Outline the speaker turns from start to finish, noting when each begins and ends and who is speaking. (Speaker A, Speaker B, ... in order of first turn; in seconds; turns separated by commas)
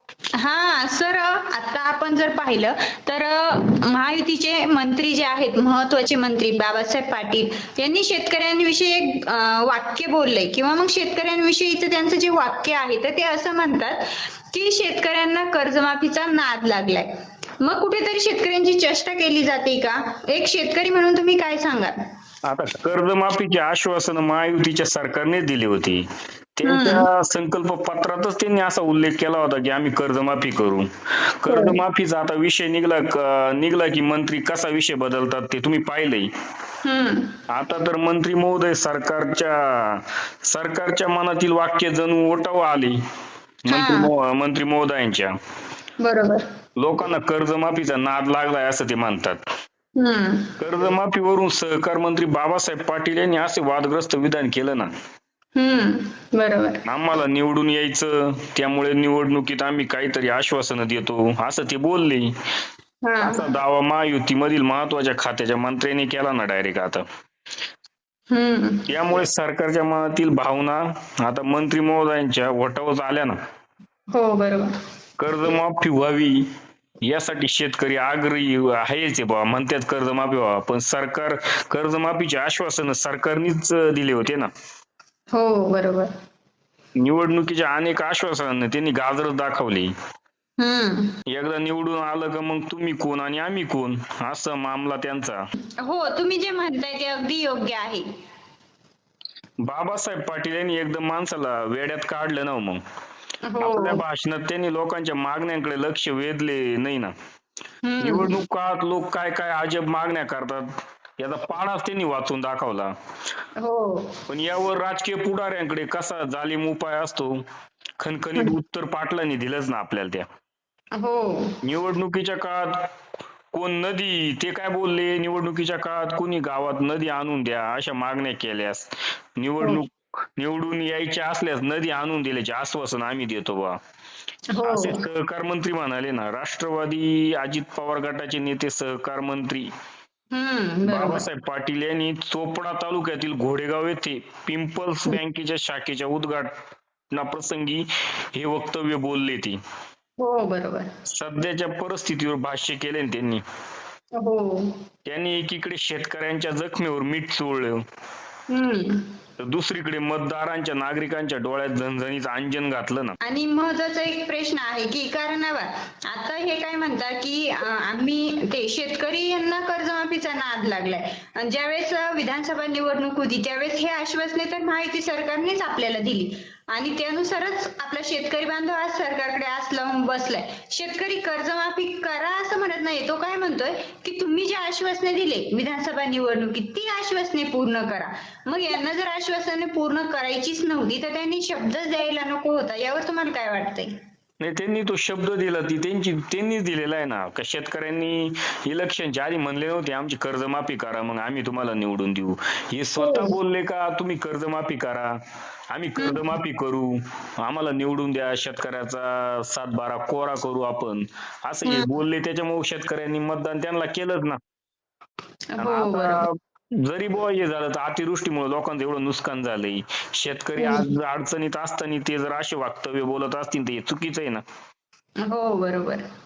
Speaker A: 0.4-21.9, Speaker B: 22.4-26.0, Speaker B: 26.6-30.9, Speaker A: 26.6-27.1, Speaker B: 31.4-36.3, Speaker A: 31.5-31.8, Speaker A: 36.8-37.3, Speaker B: 37.5-43.0, Speaker B: 43.7-45.3, Speaker A: 43.7-44.1, Speaker A: 46.0-46.4, Speaker B: 46.8-49.4, Speaker A: 50.0-50.5, Speaker B: 50.6-54.9, Speaker A: 55.5-56.8, Speaker B: 56.9-62.3, Speaker A: 63.0-63.5, Speaker B: 63.2-67.0, Speaker A: 68.3-68.9, Speaker B: 68.9-73.3, Speaker A: 74.1-74.7, Speaker B: 75.2-76.4, Speaker B: 77.0-84.5, Speaker A: 85.3-86.1, Speaker B: 87.0-89.9, Speaker A: 90.6-91.2, Speaker B: 91.3-95.4, Speaker A: 95.8-98.0, Speaker B: 99.6-102.8, Speaker A: 103.5-104.0, Speaker B: 103.6-107.1, Speaker A: 107.8-108.3, Speaker B: 108.0-112.9, Speaker A: 113.6-114.1, Speaker B: 114.3-117.4, Speaker B: 118.0-120.3, Speaker A: 121.0-121.5, Speaker B: 121.6-122.8, Speaker B: 123.5-133.8, Speaker A: 134.5-135.0, Speaker B: 134.6-139.7, Speaker A: 140.3-141.2, Speaker B: 140.8-146.5, Speaker B: 147.1-149.6, Speaker A: 150.2-150.9, Speaker B: 151.1-153.4, Speaker A: 154.2-154.7, Speaker B: 155.1-157.8, Speaker A: 158.5-159.0, Speaker B: 159.4-163.2, Speaker A: 163.2-193.9, Speaker B: 194.4-205.1, Speaker A: 203.0-203.3, Speaker B: 205.7-214.4, Speaker A: 206.0-206.2, Speaker A: 211.6-211.9, Speaker A: 215.5-216.2, Speaker B: 215.6-224.4, Speaker A: 220.6-220.9, Speaker A: 225.2-226.0